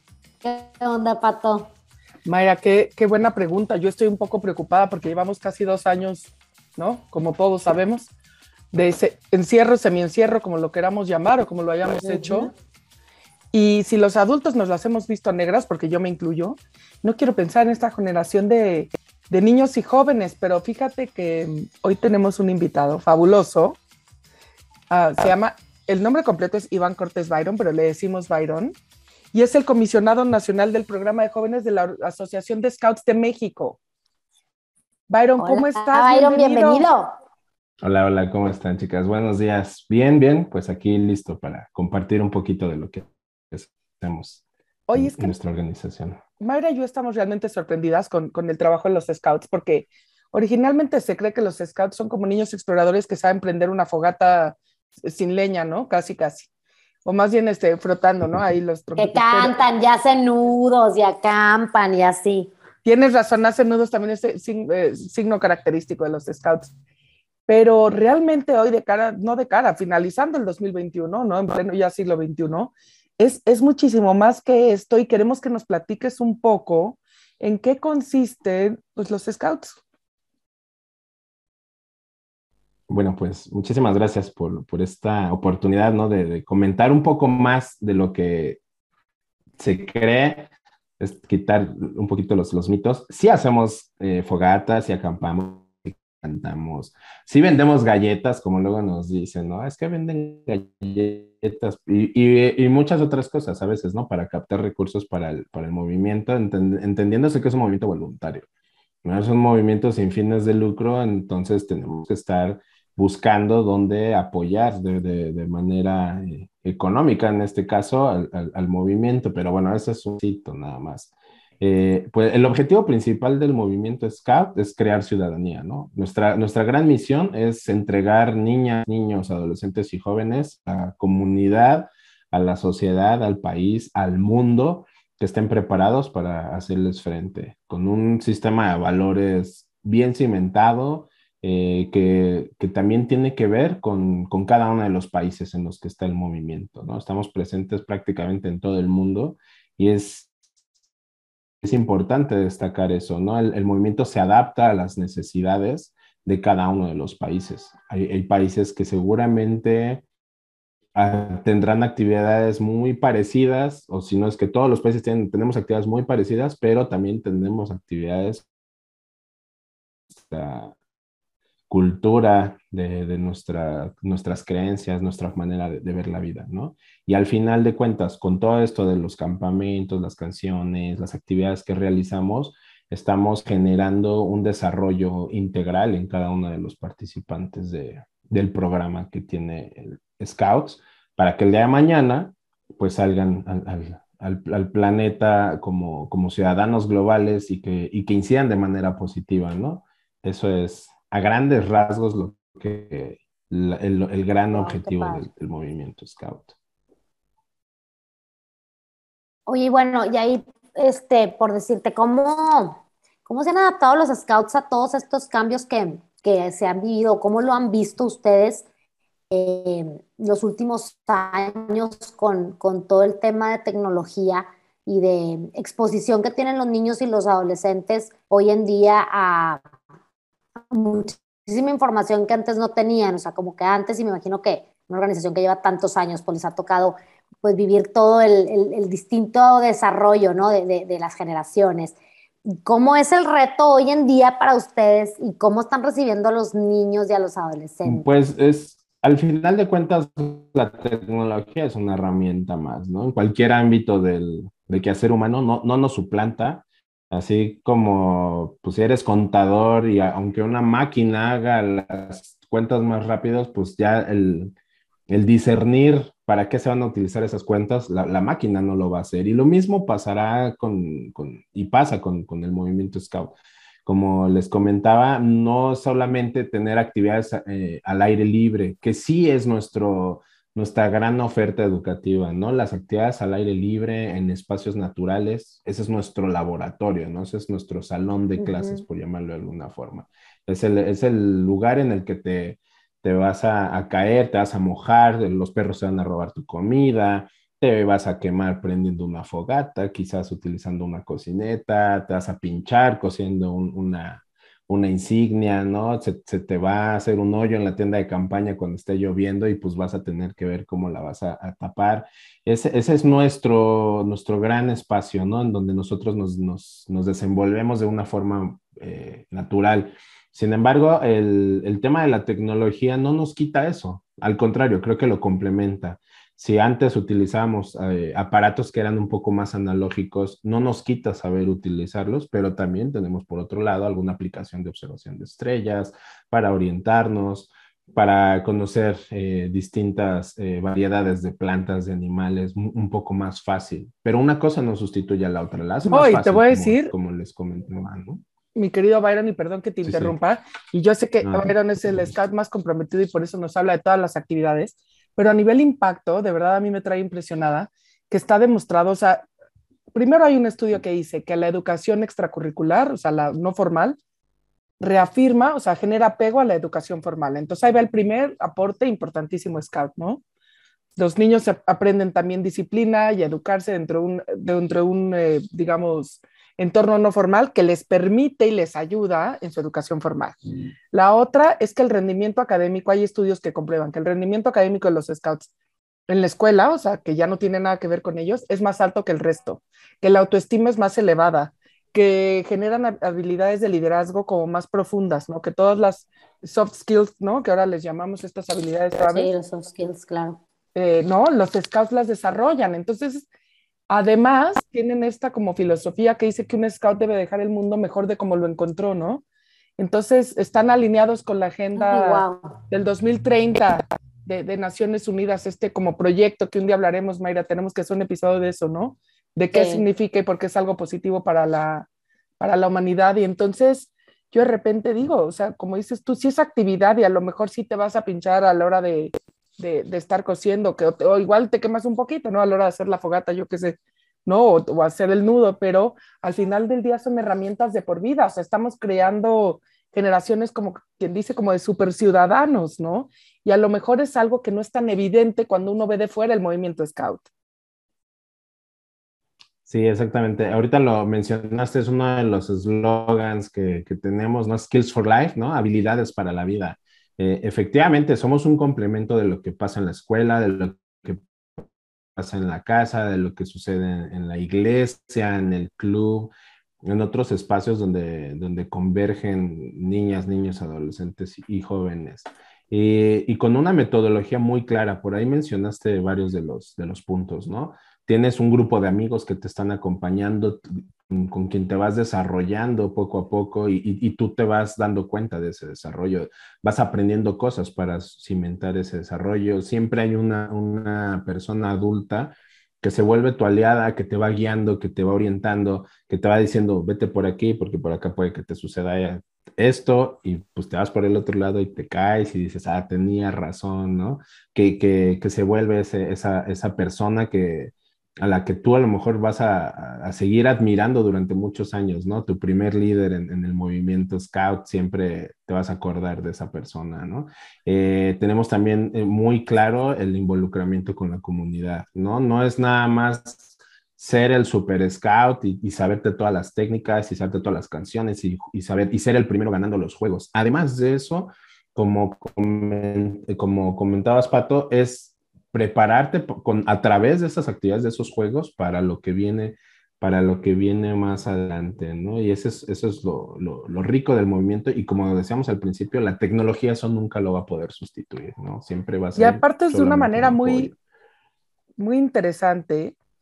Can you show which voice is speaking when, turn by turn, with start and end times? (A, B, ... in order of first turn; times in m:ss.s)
0:00.4-0:01.7 A
0:02.2-0:08.1 B
0:08.7-0:12.5 B
0:13.5-0:23.8 B
0:24.9-0:28.8 B
0:29.3-0:33.8 B
0:35.1-0:36.8 B
0:35.4-0:37.1 A
0:37.8-0:44.4 C
0:44.9-0:45.3 B
0:44.9-0:46.2 C
0:46.4-0:56.5 B
0:57.0-0:59.6 B
0:59.0-1:02.5 A
1:02.8-1:06.7 B
1:07.5-1:19.8 B
1:22.9-1:28.6 C
1:29.6-1:48.5 C
1:49.0-2:30.3 C
2:31.6-2:40.0 C
2:40.9-2:48.4 C
2:50.1-2:50.7 C
2:51.7-3:26.5 C
3:24.5-3:25.2 A
3:29.5-3:38.6 A
3:39.3-3:49.6 A
3:50.7-4:02.0 A
4:02.5-4:08.0 A
4:07.8-4:24.5 C
4:25.1-5:48.2 C
4:48.4-4:48.8 A
5:45.9-5:46.9 B
5:48.5-5:59.2 B
5:49.8-5:50.2 C
5:51.2-5:52.1 C
5:59.9-6:04.0 B
6:04.8-6:10.2 B
6:11.0-6:20.4 B
6:20.9-6:25.5 B
6:26.1-6:39.3 B
6:39.0-6:40.4 A
6:40.7-6:43.2 B
6:43.9-6:49.2 B
6:49.8-7:01.9 B
6:51.7-6:52.5 A
6:59.5-6:59.8 A
7:02.4-7:27.2 B
7:29.6-7:41.6 C
7:42.2-7:46.3 C
7:46.8-9:10.8 C
9:09.1-9:10.7 B
9:11.8-9:13.0 B